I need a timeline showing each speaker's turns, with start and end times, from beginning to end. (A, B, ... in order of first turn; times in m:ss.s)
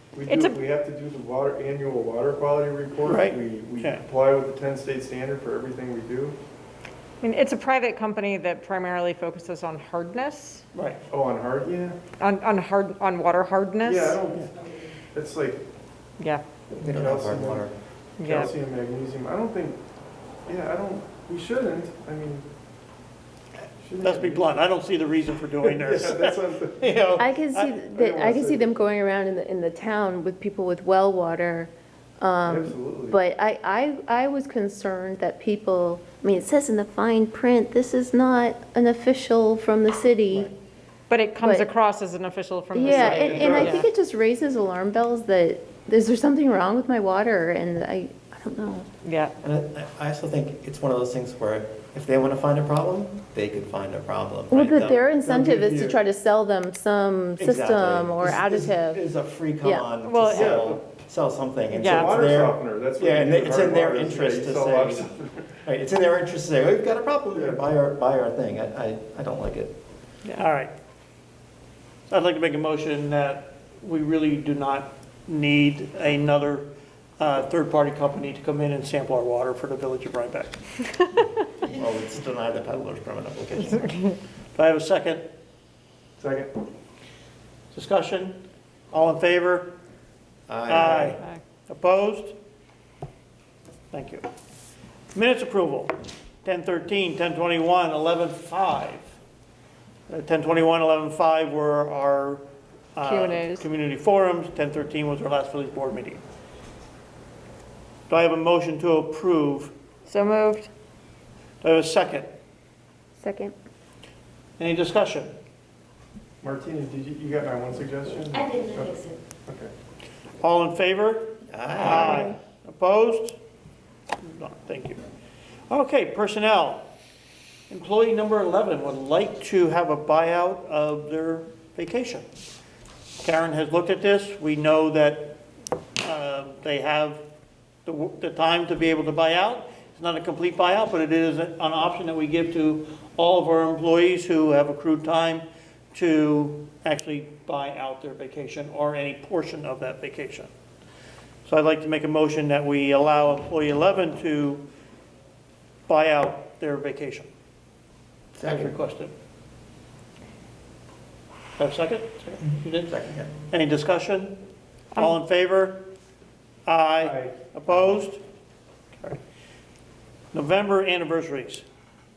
0:00.1-0:06.4 A
0:00.3-0:00.6 B
0:03.0-0:04.0 C
0:07.2-0:10.6 B
0:10.7-0:11.0 C
0:11.1-0:12.0 A
0:12.2-0:14.2 B
0:13.8-0:14.5 A
0:15.1-0:15.6 A
0:16.8-0:17.7 D
0:16.8-0:17.6 A
0:18.2-0:18.5 B
0:18.2-0:19.8 A
0:20.5-0:22.4 A
0:23.8-0:24.6 A
0:24.0-0:27.8 C
0:25.6-0:26.9 A
0:27.2-0:40.5 E
0:27.9-0:28.7 A
0:32.4-0:33.2 A
0:41.1-0:43.9 B
0:41.4-0:41.7 E
0:42.7-0:48.9 E
0:42.8-0:43.8 A
0:49.0-0:49.3 B
0:49.4-0:55.0 D
0:54.5-0:59.0 E
0:55.2-0:56.0 A
0:57.4-1:05.1 D
0:59.6-0:59.9 E
1:00.0-1:00.6 B
1:00.3-1:00.8 A
1:01.7-1:02.1 B
1:01.8-1:05.3 A
1:05.6-1:09.8 D
1:07.3-1:07.6 A
1:10.4-1:10.7 C
1:12.1-1:20.6 C
1:21.6-1:23.8 D
1:24.5-1:25.3 C
1:26.2-1:26.5 A
1:27.7-1:28.4 C
1:28.9-1:29.7 C
1:30.5-1:31.2 D
1:30.7-1:32.3 C
1:33.9-1:34.2 C
1:35.1-1:35.9 C
1:36.4-1:39.1 C
1:40.1-1:42.4 C
1:42.9-1:46.2 C
1:43.0-1:43.7 B
1:48.1-1:49.7 C
1:50.0-1:50.7 B
1:51.6-1:52.3 C
1:53.2-1:53.5 E
1:54.6-1:55.3 C
1:56.4-1:59.7 A
2:00.4-2:03.4 C
2:01.5-2:02.3 D
2:01.8-2:02.3 E
2:04.2-2:05.0 C
2:05.7-2:06.8 C
2:07.7-2:12.2 C
2:13.2-2:15.4 C
2:16.0-2:17.2 C
2:17.8-2:30.5 C
2:31.4-2:34.6 C
2:35.9-2:37.3 C
2:38.4-2:38.8 D
2:38.4-2:39.1 C
2:41.6-2:44.4 C
2:42.9-2:43.3 D
2:44.9-2:45.9 C
2:46.6-2:48.2 C
2:47.0-2:47.3 A
2:50.3-2:51.6 C